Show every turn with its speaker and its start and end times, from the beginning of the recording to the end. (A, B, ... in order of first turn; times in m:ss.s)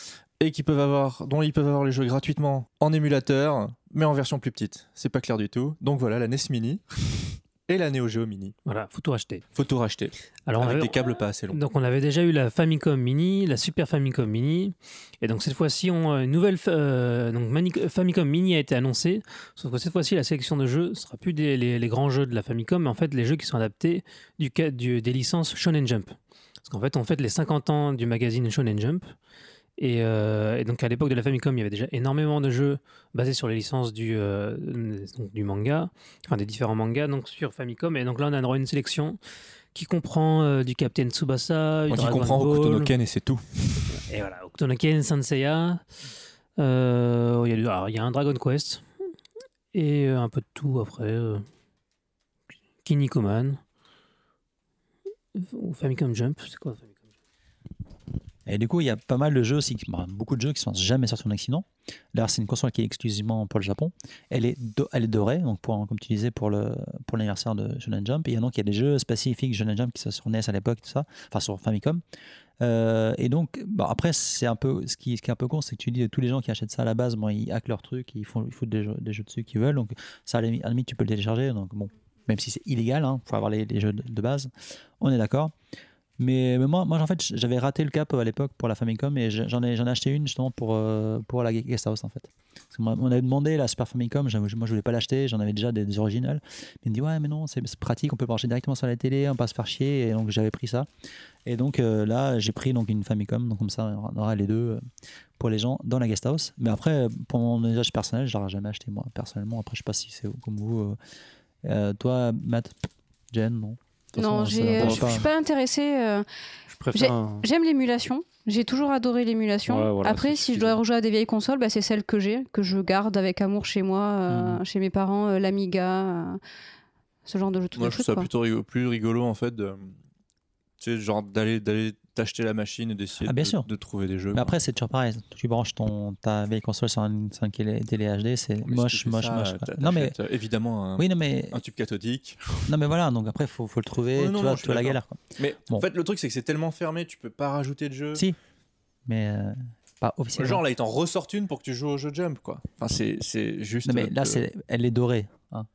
0:00.4-0:08.6 A
0:08.7-0:09.4 B
0:09.6-0:11.6 A
0:10.5-0:29.1 B
0:29.8-0:39.2 B
0:39.7-0:42.9 B
0:41.9-0:44.0 A
0:44.0-0:45.8 B
0:46.6-0:48.8 B
0:49.7-0:51.5 B
0:52.8-0:53.6 B
0:55.4-0:57.0 B
0:58.5-1:12.0 C
1:12.6-1:25.5 C
1:26.2-1:40.9 C
1:41.5-1:44.8 C
1:45.4-1:51.0 C
1:51.6-1:55.3 C
1:54.2-1:56.3 D
1:54.8-1:55.2 E
1:56.7-1:57.4 E
1:56.9-2:06.4 D
1:59.7-2:00.8 E
2:04.3-2:04.6 C
2:07.3-2:08.3 D
2:07.8-2:10.0 A
2:10.8-2:14.5 A
2:13.2-2:13.7 C
2:14.3-2:20.2 C
2:18.6-2:22.7 A
2:21.0-2:21.6 C
2:22.7-2:25.9 C
2:24.1-2:28.3 A
2:29.1-2:30.6 C
2:30.4-2:34.4 A
2:33.8-2:35.7 C